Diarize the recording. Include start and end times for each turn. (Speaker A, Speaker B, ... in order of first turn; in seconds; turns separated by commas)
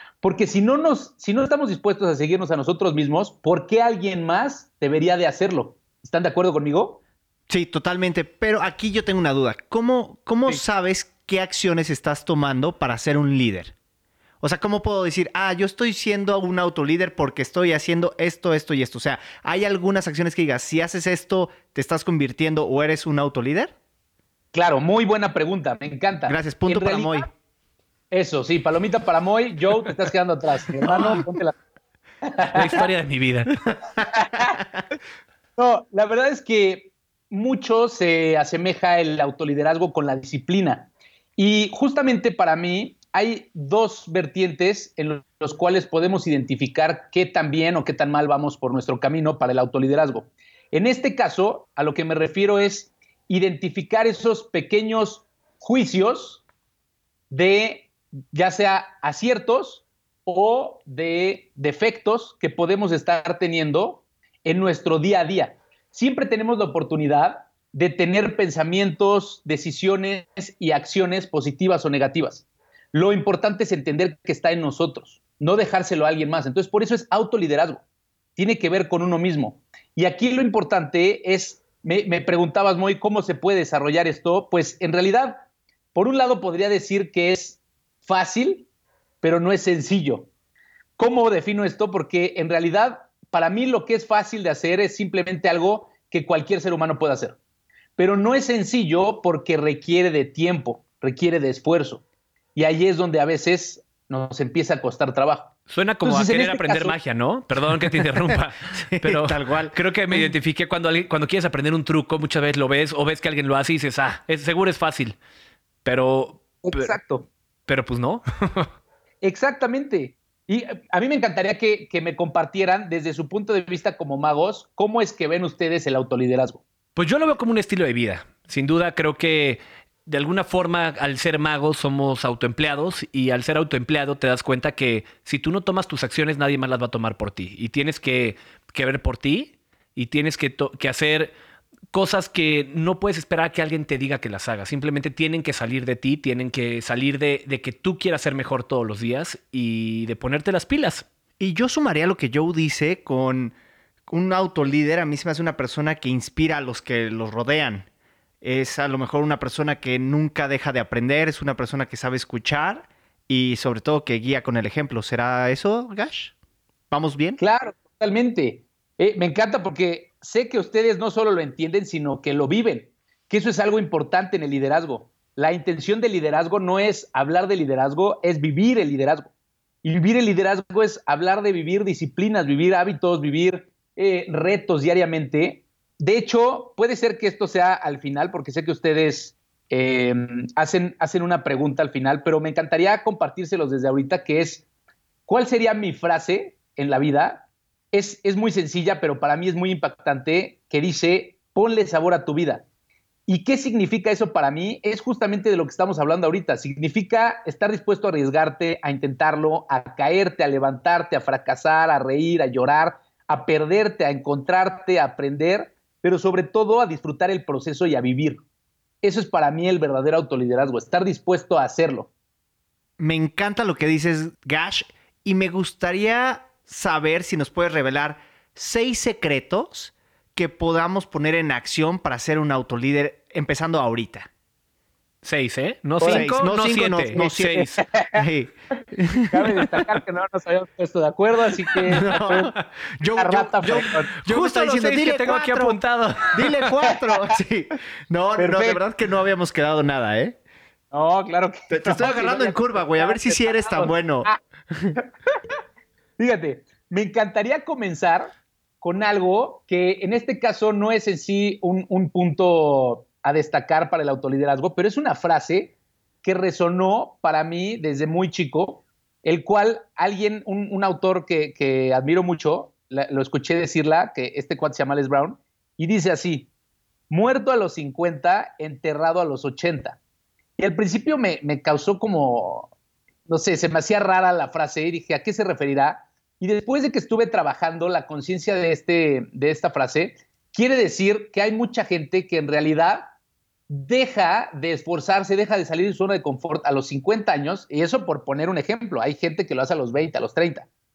Speaker A: 0.2-7.0, Speaker B: 7.5-13.7, Speaker B: 14.4-23.7, Speaker A: 24.5-27.3, Speaker B: 26.3-27.3, Speaker A: 28.1-31.6, Speaker B: 30.9-31.2, Speaker A: 32.2-32.9, Speaker C: 32.5-33.5, Speaker B: 33.7-34.6, Speaker A: 34.1-34.6, Speaker A: 35.6-56.4, Speaker A: 57.3-77.8, Speaker A: 78.4-88.7, Speaker A: 89.2-90.3, Speaker A: 91.0-97.4, Speaker A: 98.0-102.0, Speaker A: 102.5-107.0, Speaker C: 105.7-115.2, Speaker B: 108.7-110.3, Speaker C: 115.8-117.0, Speaker A: 116.6-117.3, Speaker C: 117.7-118.7, Speaker A: 119.2-126.6, Speaker C: 127.0-141.3, Speaker C: 141.9-151.1, Speaker B: 151.4-153.6, Speaker B: 154.1-157.9, Speaker B: 158.4-166.3, Speaker B: 166.9-167.4, Speaker A: 167.4-179.3, Speaker A: 179.8-194.7, Speaker A: 195.3-202.7, Speaker A: 203.3-218.4, Speaker A: 219.0-222.1, Speaker B: 223.0-234.3, Speaker C: 235.2-237.8, Speaker A: 236.0-236.3, Speaker B: 236.0-239.6, Speaker A: 237.9-238.2, Speaker A: 239.3-242.5, Speaker B: 241.9-245.8, Speaker A: 243.2-244.1, Speaker C: 243.7-246.7, Speaker B: 246.3-250.4, Speaker A: 246.9-247.4, Speaker A: 248.4-248.8, Speaker A: 250.9-254.4, Speaker B: 251.7-254.9, Speaker A: 256.2-258.3, Speaker A: 258.8-276.5, Speaker A: 277.1-280.0, Speaker A: 280.6-282.7, Speaker A: 283.3-293.1, Speaker A: 293.7-300.7